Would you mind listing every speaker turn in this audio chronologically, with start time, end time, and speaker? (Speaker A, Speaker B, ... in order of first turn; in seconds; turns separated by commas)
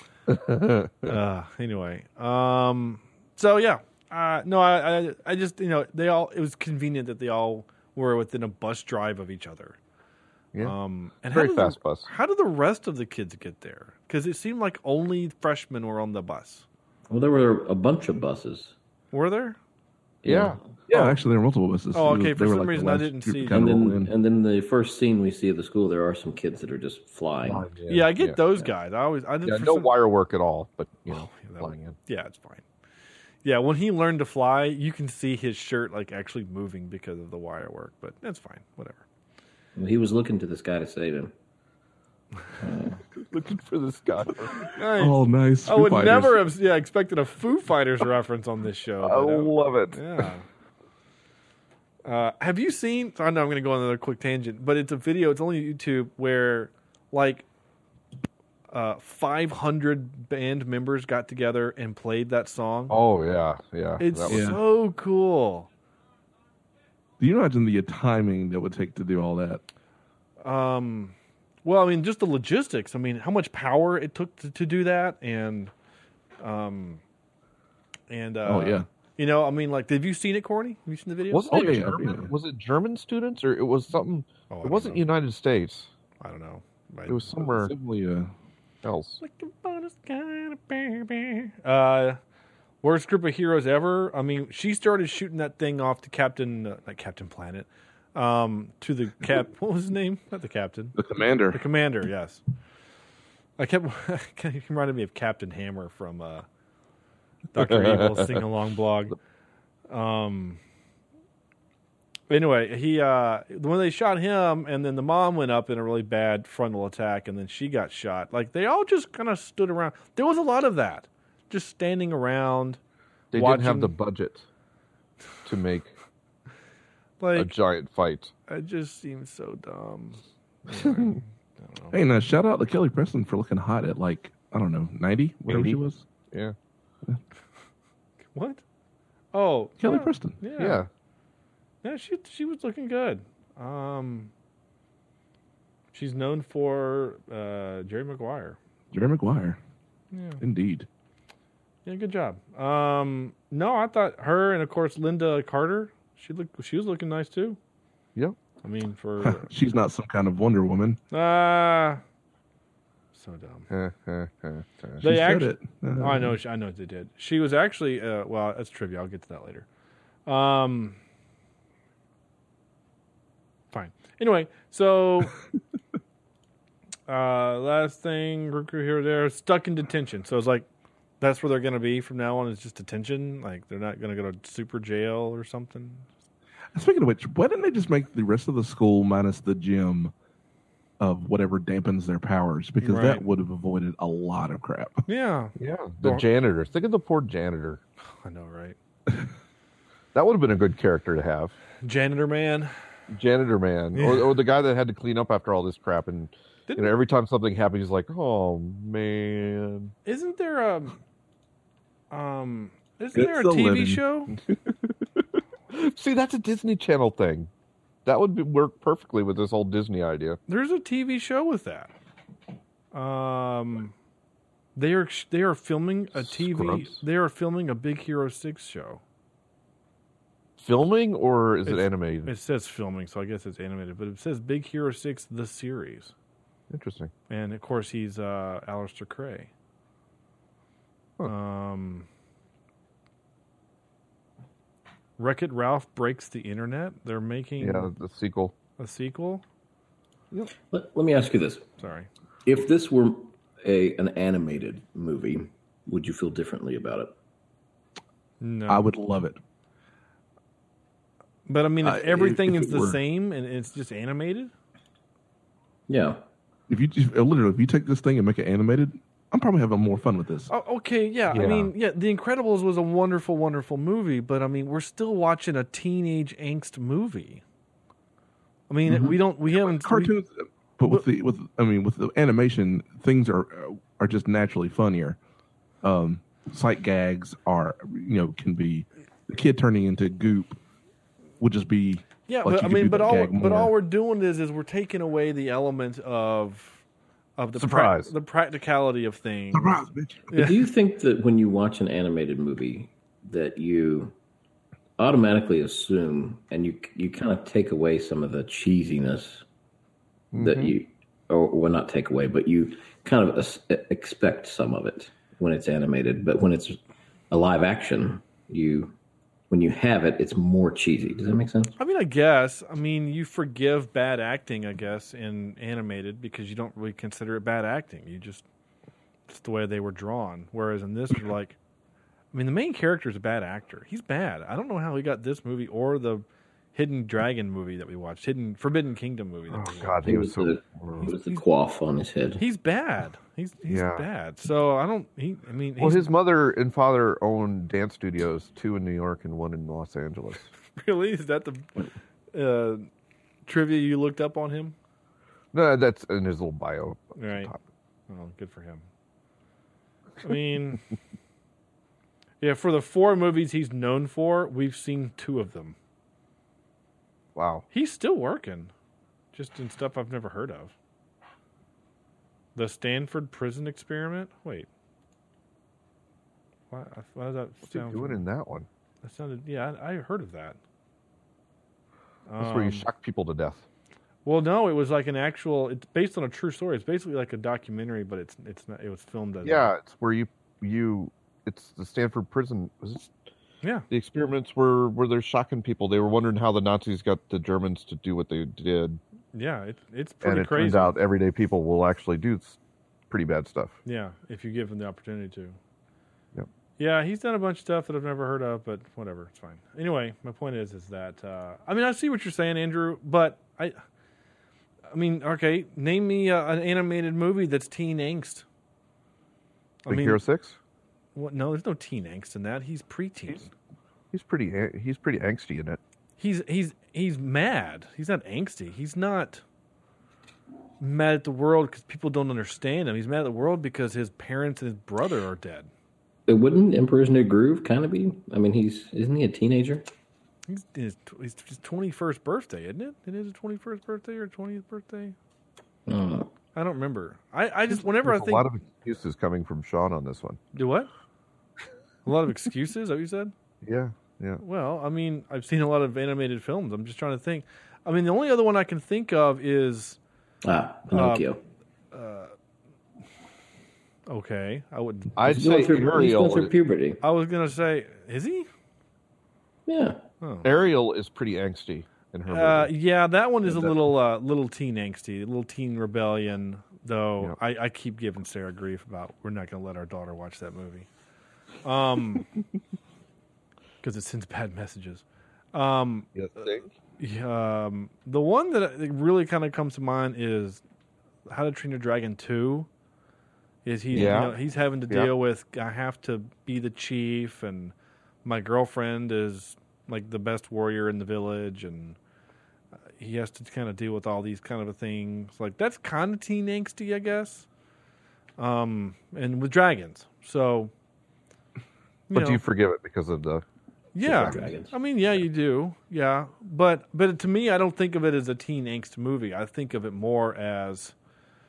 Speaker A: 0.3-1.1, Speaker B: 1.1-9.8, Speaker B: 10.6-16.7, Speaker A: 11.3-12.1, Speaker C: 17.1-18.8, Speaker B: 19.1-19.6, Speaker C: 20.2-20.6, Speaker A: 20.2-20.6, Speaker D: 20.9-24.1, Speaker B: 20.9-21.2, Speaker B: 21.9-23.6, Speaker C: 23.5-27.7, Speaker A: 27.4-28.7, Speaker B: 27.9-29.9, Speaker A: 29.4-32.0, Speaker B: 31.1-32.6, Speaker B: 33.4-39.0, Speaker C: 39.8-41.3, Speaker C: 42.6-43.0, Speaker A: 43.3-44.6, Speaker B: 44.8-50.5, Speaker D: 45.0-46.4, Speaker A: 49.0-50.0, Speaker B: 52.0-57.5, Speaker B: 58.7-63.0, Speaker A: 62.9-64.5, Speaker B: 64.0-65.7, Speaker D: 64.3-64.6, Speaker D: 67.2-69.6, Speaker B: 70.4-75.7, Speaker B: 76.4-77.0, Speaker B: 78.1-82.0, Speaker D: 78.5-78.9, Speaker A: 81.3-85.9, Speaker D: 81.5-82.3, Speaker B: 84.5-85.1, Speaker B: 86.2-87.3, Speaker A: 87.1-87.7, Speaker D: 87.5-88.3, Speaker A: 88.8-89.2, Speaker B: 89.2-92.2, Speaker B: 92.8-101.0, Speaker D: 101.0-101.6, Speaker B: 101.5-102.4, Speaker B: 103.6-106.5, Speaker B: 107.5-109.2, Speaker A: 107.6-108.3, Speaker B: 109.9-110.6, Speaker B: 112.3-122.8, Speaker A: 123.3-124.5, Speaker B: 123.3-124.0, Speaker A: 125.5-125.9, Speaker B: 127.2-127.5, Speaker A: 127.3-128.3, Speaker B: 128.5-132.0, Speaker A: 130.7-131.0, Speaker D: 131.9-136.0, Speaker A: 135.5-136.6, Speaker B: 138.3-138.6, Speaker B: 139.3-140.8, Speaker D: 139.8-140.4, Speaker A: 140.6-140.9, Speaker B: 141.8-144.3, Speaker B: 145.9-148.6, Speaker D: 148.9-149.6, Speaker B: 150.1-150.4, Speaker D: 150.4-150.9, Speaker B: 151.8-157.6, Speaker B: 158.6-159.5, Speaker D: 159.2-161.0, Speaker B: 161.1-162.0, Speaker B: 163.1-163.7, Speaker A: 163.7-165.0, Speaker D: 165.0-166.4, Speaker B: 165.0-169.7, Speaker B: 170.3-171.0, Speaker B: 173.7-175.3, Speaker B: 177.1-180.7, Speaker B: 181.2-186.1, Speaker D: 186.7-190.1, Speaker D: 191.0-195.1, Speaker B: 192.8-193.3, Speaker B: 195.1-196.3, Speaker A: 195.6-197.8, Speaker B: 198.0-198.8, Speaker A: 200.1-201.6, Speaker B: 201.8-202.7, Speaker A: 203.1-209.9, Speaker B: 203.9-204.3, Speaker B: 206.7-207.0, Speaker B: 210.1-210.9, Speaker B: 212.1-214.3, Speaker D: 213.1-214.0, Speaker A: 215.7-217.5, Speaker A: 218.1-220.4, Speaker B: 220.5-221.9, Speaker B: 222.9-223.9, Speaker B: 224.8-229.0, Speaker A: 226.2-227.0, Speaker A: 230.6-232.3, Speaker B: 231.7-236.1, Speaker A: 236.7-237.1, Speaker B: 237.3-239.5, Speaker B: 241.2-242.1, Speaker B: 245.2-247.9, Speaker A: 247.6-248.6, Speaker B: 248.8-249.4, Speaker C: 250.7-251.7, Speaker B: 251.8-252.1, Speaker C: 252.5-257.1, Speaker B: 258.4-258.9, Speaker D: 258.7-259.4, Speaker B: 261.5-264.5, Speaker D: 261.8-263.0, Speaker C: 265.9-266.2, Speaker D: 266.7-270.5, Speaker B: 270.5-277.4, Speaker A: 271.3-271.7, Speaker B: 278.7-280.2, Speaker D: 279.6-285.2, Speaker D: 285.8-290.6, Speaker D: 291.4-293.7, Speaker B: 292.3-296.8, Speaker B: 297.4-300.6, Speaker A: 297.6-298.1, Speaker D: 299.5-300.2, Speaker C: 300.3-304.1, Speaker C: 305.0-309.4, Speaker A: 310.3-310.7, Speaker C: 310.4-316.8, Speaker C: 317.3-318.9, Speaker C: 319.5-321.7, Speaker B: 321.8-328.4, Speaker B: 329.3-331.6, Speaker B: 332.3-340.0, Speaker A: 339.5-341.1, Speaker C: 340.0-342.4, Speaker B: 341.0-341.4, Speaker B: 342.4-346.1, Speaker A: 343.7-344.1, Speaker A: 345.8-350.5, Speaker B: 350.8-352.9, Speaker B: 353.5-354.8, Speaker A: 355.5-357.6, Speaker B: 357.2-357.5, Speaker B: 358.1-358.9, Speaker B: 360.2-360.8, Speaker B: 362.4-365.8, Speaker A: 367.4-367.7, Speaker B: 367.7-368.7, Speaker B: 369.3-370.7, Speaker B: 372.6-374.7, Speaker B: 376.7-378.2, Speaker A: 377.7-378.7, Speaker B: 379.0-380.6, Speaker B: 382.3-382.9, Speaker A: 382.4-383.6, Speaker B: 384.2-389.7, Speaker A: 389.4-393.1, Speaker B: 393.6-393.9, Speaker A: 393.9-399.0, Speaker B: 399.3-401.0, Speaker A: 400.2-402.6, Speaker A: 403.1-403.8, Speaker B: 403.9-405.6, Speaker B: 406.8-413.8, Speaker B: 414.9-418.4, Speaker B: 419.8-420.2, Speaker A: 419.9-420.6, Speaker B: 421.1-423.5, Speaker A: 424.1-425.8, Speaker B: 426.2-429.4, Speaker B: 430.8-435.7, Speaker C: 436.3-439.9, Speaker B: 440.5-445.2, Speaker C: 445.9-446.3, Speaker B: 446.6-448.5, Speaker A: 447.7-450.4, Speaker B: 450.5-450.9, Speaker B: 452.1-453.3, Speaker A: 453.6-454.4, Speaker B: 454.4-460.0, Speaker C: 460.4-461.4, Speaker B: 460.9-461.3, Speaker B: 461.9-462.3, Speaker B: 464.1-465.3, Speaker A: 465.2-466.5, Speaker C: 465.3-467.0, Speaker B: 467.0-468.5, Speaker C: 469.7-470.0, Speaker B: 470.2-470.5, Speaker A: 470.4-472.7, Speaker B: 472.3-480.9, Speaker B: 481.6-482.3, Speaker B: 483.8-486.5, Speaker A: 486.1-486.7, Speaker B: 487.0-490.6, Speaker B: 491.3-492.7, Speaker B: 493.6-497.7, Speaker A: 493.9-495.1, Speaker B: 498.2-502.0, Speaker B: 503.0-507.5, Speaker B: 508.4-510.7, Speaker B: 512.1-512.4, Speaker A: 512.1-513.4, Speaker B: 514.0-520.9, Speaker A: 514.0-514.4, Speaker C: 514.0-514.7